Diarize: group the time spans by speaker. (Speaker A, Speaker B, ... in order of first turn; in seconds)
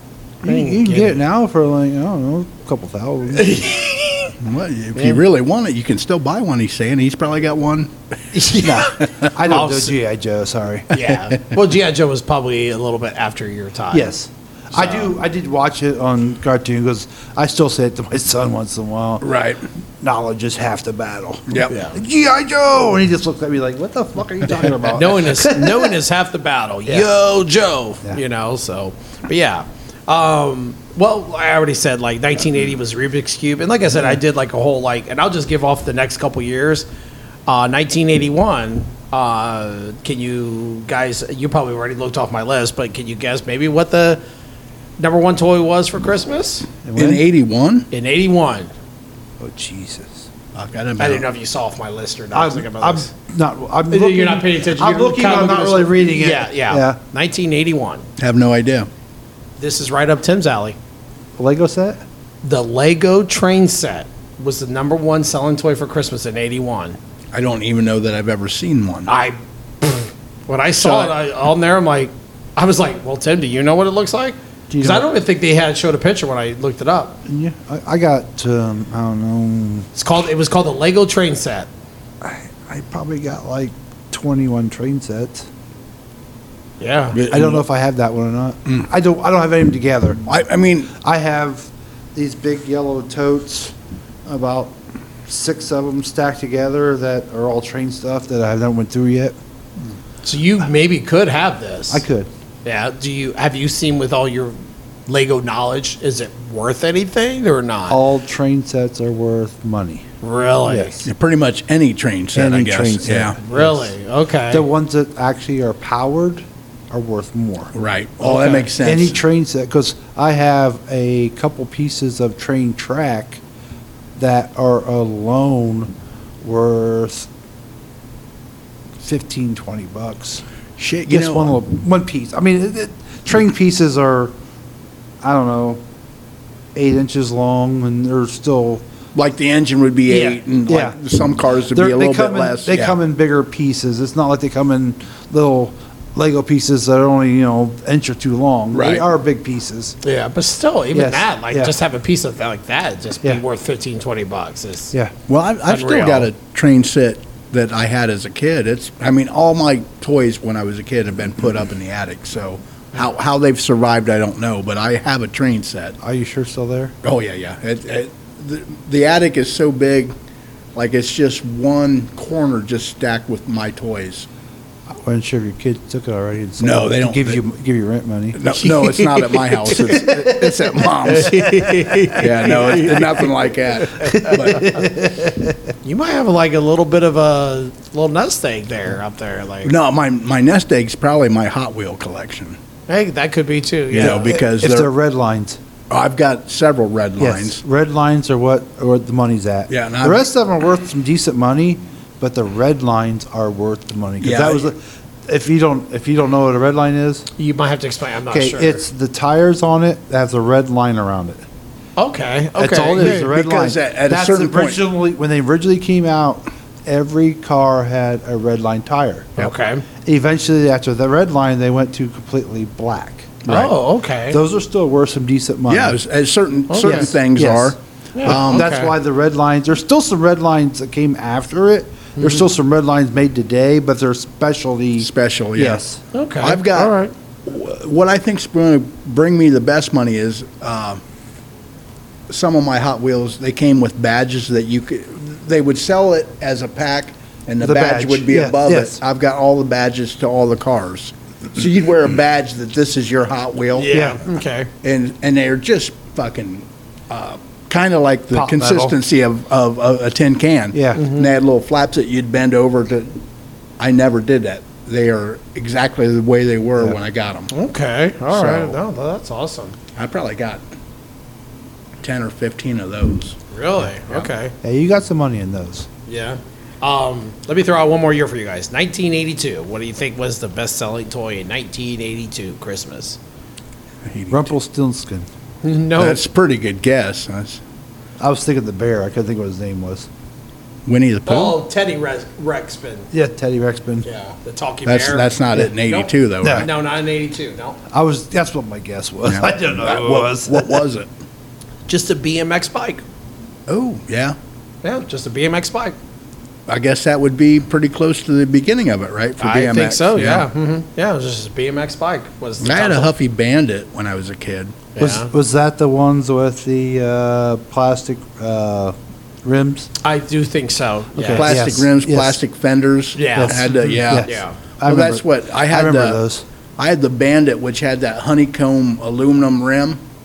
Speaker A: 0.4-1.2, 3.3-4.4, 8.3-9.9, 10.9-14.1, 14.8-15.1, 21.7-22.0, 24.6-36.9, 37.5-44.2, 45.0-46.7, 47.9-48.7, 51.0-53.1, 53.9-58.1, 59.6-60.8, 62.4-67.0, 69.1-77.2, 80.0-81.7, 86.8-87.2, 100.2-102.0, 102.7-108.0, 110.2-111.0, 113.5-114.7, 118.2-118.7, 150.0-154.9, 155.7-156.3, 178.5-180.2, 181.1-183.3, 183.8-184.8, 185.8-189.7, 192.9-194.3, 207.4-208.8, 212.0-213.3, 219.4-219.8, 223.5-224.4, 226.7-227.1, 228.2-228.9, 232.2-232.4, 236.1-237.1, 253.8-254.7, 260.9-261.3, 267.5-269.8, 273.5-274.5, 276.1-283.2, 285.6-286.2, 291.3-293.1, 294.0-297.8, 301.9-303.0, 304.8-306.0, 309.4-313.1, 314.9-315.3, 320.0-321.5, 323.1-324.6
Speaker B: 0.4-3.6, 8.6-10.9, 13.9-19.3, 20.0-26.0, 46.8-47.2, 49.4-50.3, 52.3-57.0, 61.4-62.0, 74.7-75.1, 77.3-79.9, 82.2-85.5, 87.3-90.2, 90.9-99.4, 101.9-102.3, 107.9-110.1, 110.7-111.1, 112.3-113.9, 114.5-117.7, 118.8-123.4, 124.2-127.3, 129.0-130.4, 131.1-134.3, 135.2-135.8, 136.8-138.8, 140.2-141.0, 141.7-150.0, 150.9-151.7, 166.0-166.9, 175.0-178.4, 179.9-180.6, 181.3-182.1, 184.0-185.6, 194.0-195.6, 197.2-207.3, 208.3-211.4, 212.6-219.4, 220.1-223.4, 224.3-226.0, 226.8-236.0, 247.6-249.0, 253.9-254.2, 258.3-259.0, 260.7-261.0, 274.6-275.9, 284.3-285.3, 288.2-290.1, 293.1-294.1, 296.4-296.7, 297.9-300.8, 315.0-319.9, 321.2-322.4, 323.4-326.4
Speaker C: 4.4-7.9, 9.0-9.3, 19.2-19.6, 21.5-21.7, 47.0-47.9, 50.5-51.2, 58.2-58.9, 67.3-69.1, 70.8-71.1, 87.1-87.7, 90.3-90.9, 111.0-113.4, 117.7-119.2, 130.8-131.5, 139.2-143.0, 148.7-149.1, 155.3-166.0, 167.0-170.1, 170.8-174.3, 176.6-177.4, 178.3-181.4, 182.2-184.7, 189.6-192.6, 193.9-194.9, 195.9-197.6, 199.7-200.2, 204.2-204.7, 212.9-214.8, 223.4-223.7, 225.7-228.7, 235.0-235.8, 236.4-241.0, 242.3-254.0, 254.8-263.2, 263.8-267.5, 268.3-268.8, 270.0-270.6, 272.0-273.4, 284.1-284.5, 286.0-287.6, 290.9-291.6, 294.9-296.7, 299.2-301.1, 303.7-304.4, 306.7-310.5, 312.6-314.8, 321.2-326.2, 326.8-330.0